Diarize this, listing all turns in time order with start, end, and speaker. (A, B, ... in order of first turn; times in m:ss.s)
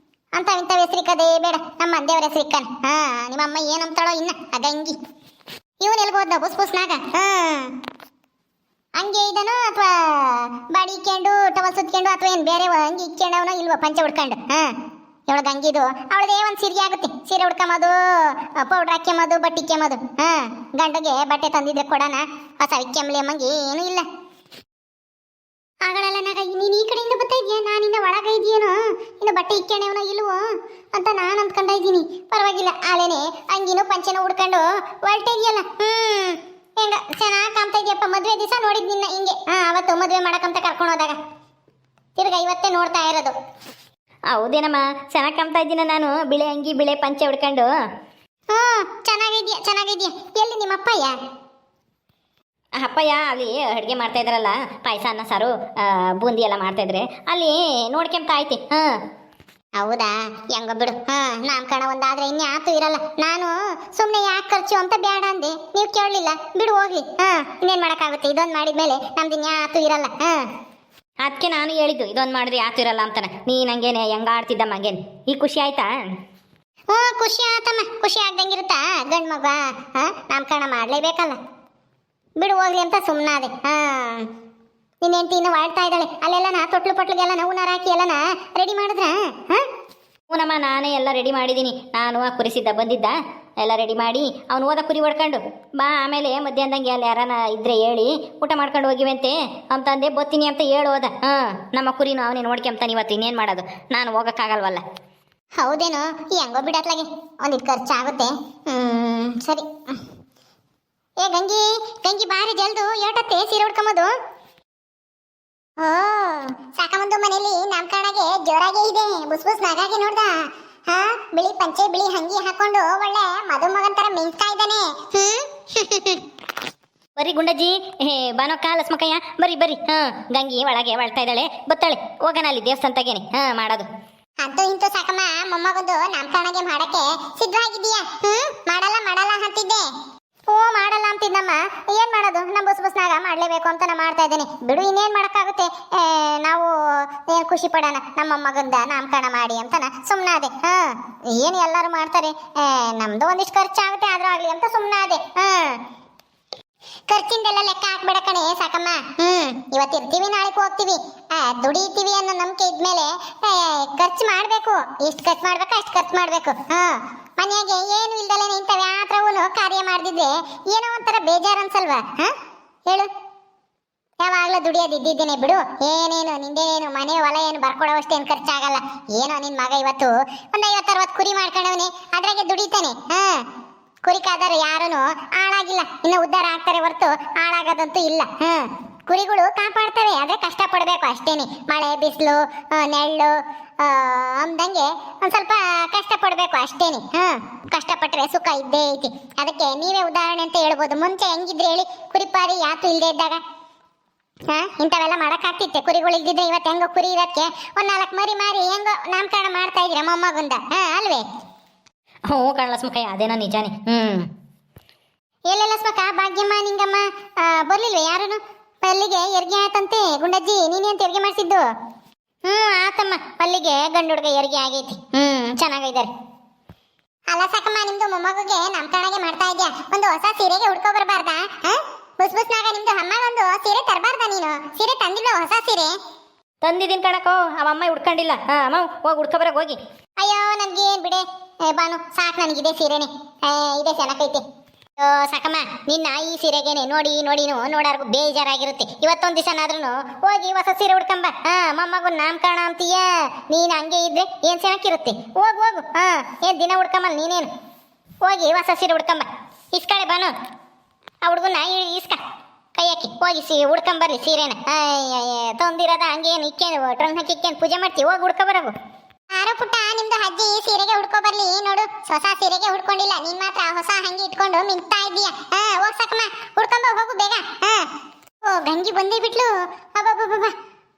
0:00.4-0:05.0 A
0:05.8-0:07.7 A
0:09.0-0:14.8 A
0:15.3-0:24.1 A
0:25.8-0:41.2 A
0:42.2-0:43.3 A
0:44.3-0:47.7 B
0:48.5-0:51.2 A
0:52.8-0:58.9 B
0:59.8-1:10.5 A
1:11.2-1:15.9 B
1:16.9-1:21.4 A
1:22.4-1:24.3 A
1:25.0-1:29.6 A
1:30.3-1:44.8 B
1:45.6-1:49.7 A
1:51.2-1:54.1 A
1:55.8-2:06.2 A
2:07.2-2:13.9 B
2:14.4-2:19.9 A
2:20.5-2:35.8 A
2:37.1-2:52.3 A
2:54.2-3:03.4 A
3:04.0-3:23.4 A
3:24.5-3:31.2 A
3:32.3-3:34.3 B
3:35.5-3:41.6 A
3:42.4-3:46.1 A
3:47.3-3:55.9 A
3:56.6-3:59.8 B
4:00.2-4:04.4 A
4:05.0-4:17.5 A
4:18.2-4:20.3 A
4:21.2-4:22.2 A
4:22.8-4:28.7 A
4:29.3-4:37.9 A
4:38.4-4:40.5 A